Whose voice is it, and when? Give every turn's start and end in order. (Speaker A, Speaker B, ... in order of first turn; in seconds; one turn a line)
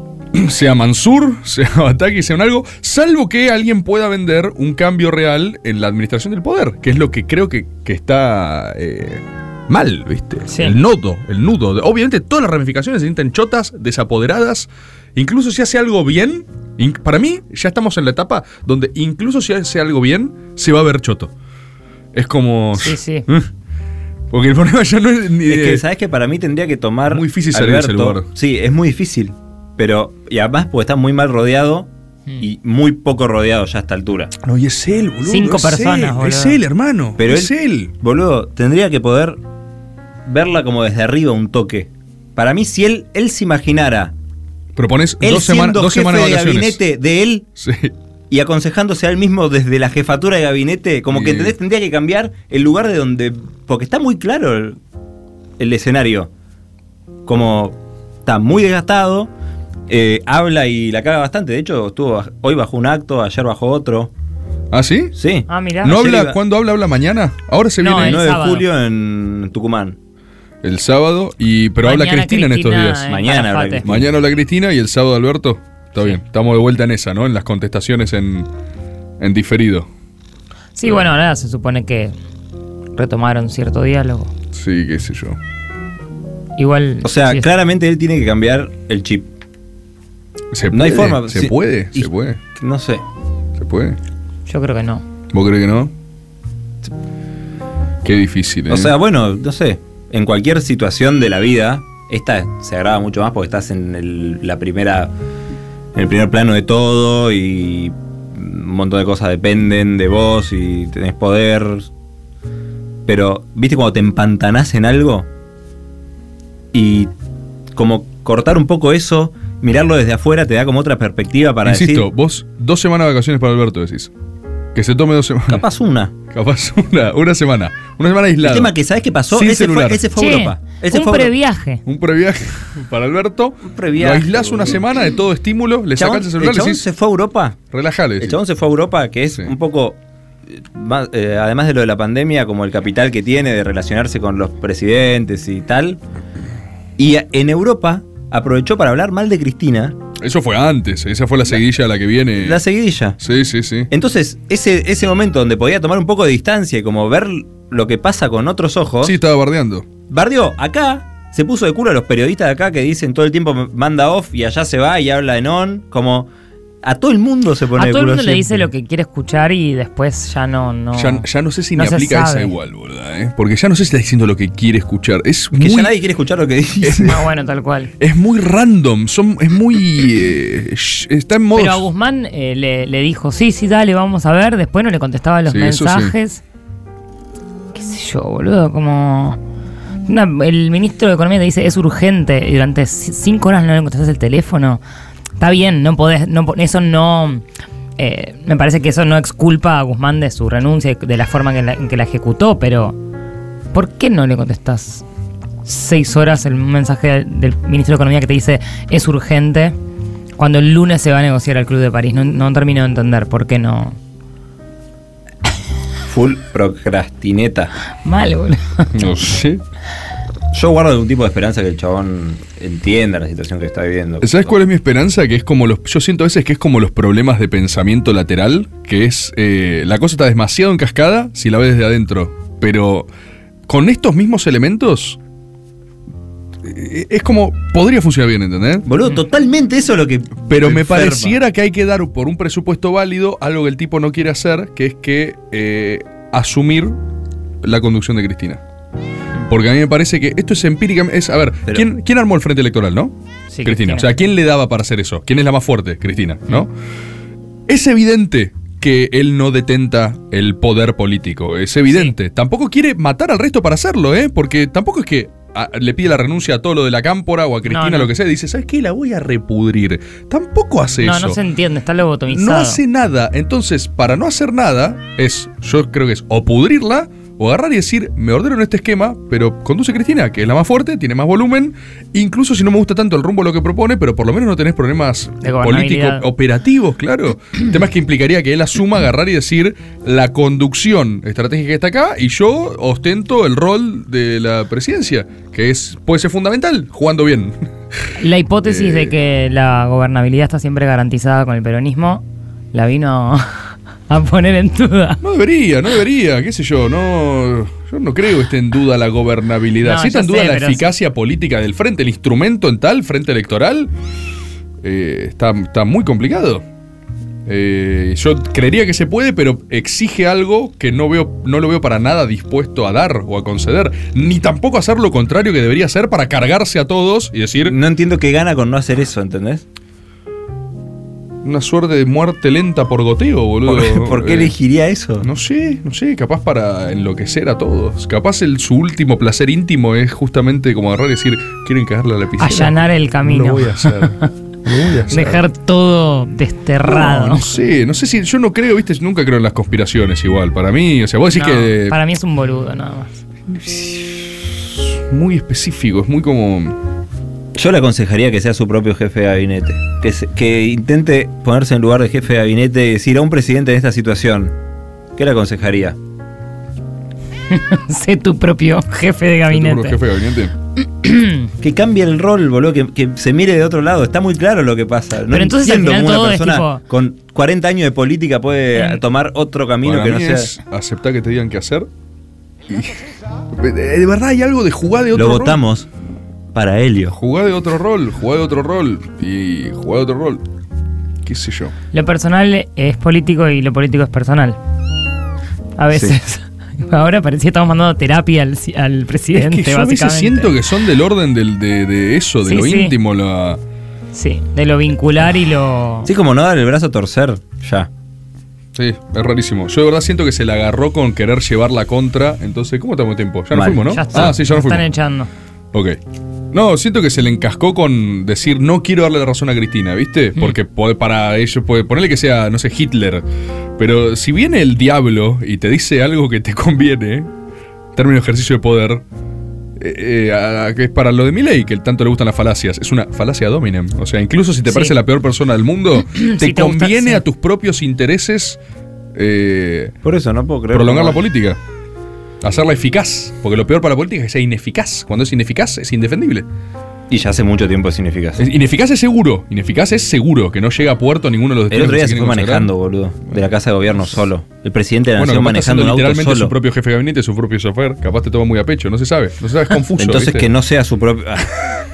Speaker A: 0.3-21.3
Speaker B: 10.5-10.8
Speaker A: 22.1-23.5
Speaker B: 22.8-23.3
Speaker A: 24.3-25.8
Speaker C: 25.5-34.3
Speaker A: 27.1-28.3
Speaker A: 34.4-37.9
Speaker B: 35.2-36.6
Speaker C: 37.2-39.4
Speaker C: 40.3-44.1
Speaker A: 44.8-46.8
Speaker C: 45.2-47.5
Speaker A: 47.6-47.9
Speaker C: 48.3-54.8
Speaker A: 51.1-51.5
Speaker C: 55.6-56.3
Speaker C: 57.3-59.3
Speaker C: 59.9-64.1
Speaker A: 64.7-65.2
Speaker C: 65.2-66.4
Speaker B: 65.5-66.0
Speaker A: 65.8-68.2
Speaker B: 67.8-68.7
Speaker C: 67.9-70.0
Speaker A: 70.6-73.1
Speaker B: 71.8-73.9
Speaker C: 73.1-74.1
Speaker A: 73.8-78.5
Speaker A: 79.2-79.9
Speaker B: 80.8-82.2
Speaker B: 82.9-84.3
Speaker A: 84.5-85.4
Speaker B: 86.6-87.5
Speaker C: 87.0-89.3
Speaker A: 90.5-92.4
Speaker C: 90.7-93.0
Speaker A: 93.6-94.0
Speaker B: 94.5-95.0
Speaker A: 95.3-95.9
Speaker A: 98.0-98.9
Speaker C: 98.7-105.1
Speaker C: 106.0-111.9
Speaker C: 113.1-115.3
Speaker C: 116.7-117.1
Speaker C: 117.7-122.1
Speaker A: 121.7-124.1
Speaker A: 124.8-125.6
Speaker C: 125.5-126.1
Speaker A: 126.3-128.7
Speaker C: 128.4-131.3
Speaker A: 129.3-130.0
Speaker B: 130.2-131.8
Speaker A: 131.9-136.8
Speaker C: 133.7-134.8
Speaker C: 136.0-137.6
Speaker A: 137.7-138.4
Speaker C: 138.2-146.0
Speaker C: 147.0-150.0
Speaker A: 150.2-152.6
Speaker C: 152.4-153.2
Speaker A: 153.2-153.9
Speaker C: 153.9-159.2
Speaker A: 159.0-159.9
Speaker C: 160.1-166.3
Speaker C: 166.8-168.7
Speaker B: 167.8-172.5
Speaker A: 171.0-175.9
Speaker C: 175.6-177.2
Speaker A: 176.8-177.2
Speaker B: 177.1-177.9
Speaker A: 178.0-181.9
Speaker B: 181.5-186.4
Speaker A: 185.5-186.1
Speaker B: 187.7-189.4
Speaker B: 190.0-194.8
Speaker B: 195.4-197.4
Speaker B: 198.0-203.0
Speaker B: 203.7-205.1
Speaker B: 205.6-209.8
Speaker B: 210.4-214.0
Speaker C: 216.1-217.7
Speaker B: 218.0-219.0
Speaker A: 218.9-219.6
Speaker C: 220.5-224.5
Speaker A: 224.2-233.1
Speaker A: 233.7-235.2
Speaker A: 236.6-238.9
Speaker C: 238.9-241.4
Speaker A: 240.5-247.0
Speaker A: 247.6-248.6
Speaker A: 249.5-256.7
Speaker B: 253.5-254.2
Speaker A: 257.7-271.4
Speaker B: 261.9-262.1
Speaker B: 267.7-268.1
Speaker B: 271.0-272.8
Speaker A: 272.3-298.1
Speaker B: 285.4-286.3
Speaker B: 298.2-305.2
Speaker A: 298.6-299.1
Speaker A: 305.2-313.9
Speaker B: 309.8-310.9
Speaker A: 314.8-316.6
Speaker A: 317.5-327.8
Speaker C: 327.6-329.6
Speaker A: 331.4-334.6
Speaker C: 333.7-335.3
Speaker A: 335.2-345.4
Speaker B: 342.4-344.3
Speaker B: 345.1-347.5
Speaker A: 346.8-351.9
Speaker B: 351.3-353.1
Speaker A: 353.5-356.8
Speaker C: 357.6-364.5
Speaker C: 365.1-366.0
Speaker B: 367.5-370.0
Speaker A: 369.5-370.5
Speaker B: 370.8-371.5
Speaker C: 371.6-380.5
Speaker B: 375.3-376.8
Speaker B: 378.8-379.0
Speaker A: 379.8-381.9
Speaker A: 382.7-383.0
Speaker A: 383.6-385.6
Speaker C: 385.1-385.9
Speaker C: 386.5-387.1
Speaker A: 387.1-390.4
Speaker A: 391.2-391.7
Speaker B: 391.9-394.6
Speaker B: 395.8-400.6
Speaker C: 395.9-396.2
Speaker A: 399.4-403.6
Speaker B: 402.4-403.0
Speaker B: 404.1-406.1
Speaker C: 406.1-407.9
Speaker A: 408.8-414.8
Speaker C: 413.5-414.4
Speaker B: 413.9-415.3
Speaker A: 415.7-416.0
Speaker A: 416.5-423.2
Speaker A: 423.8-427.3
Speaker A: 427.9-429.1
Speaker A: 429.8-438.6
Speaker B: 434.7-435.0
Speaker B: 436.1-437.2
Speaker A: 439.1-439.9
Speaker C: 440.0-441.2
Speaker A: 440.7-441.6
Speaker A: 442.4-446.5
Speaker C: 447.1-448.4
Speaker A: 448.4-452.7
Speaker C: 451.7-456.5
Speaker A: 455.1-460.5
Speaker C: 460.0-461.8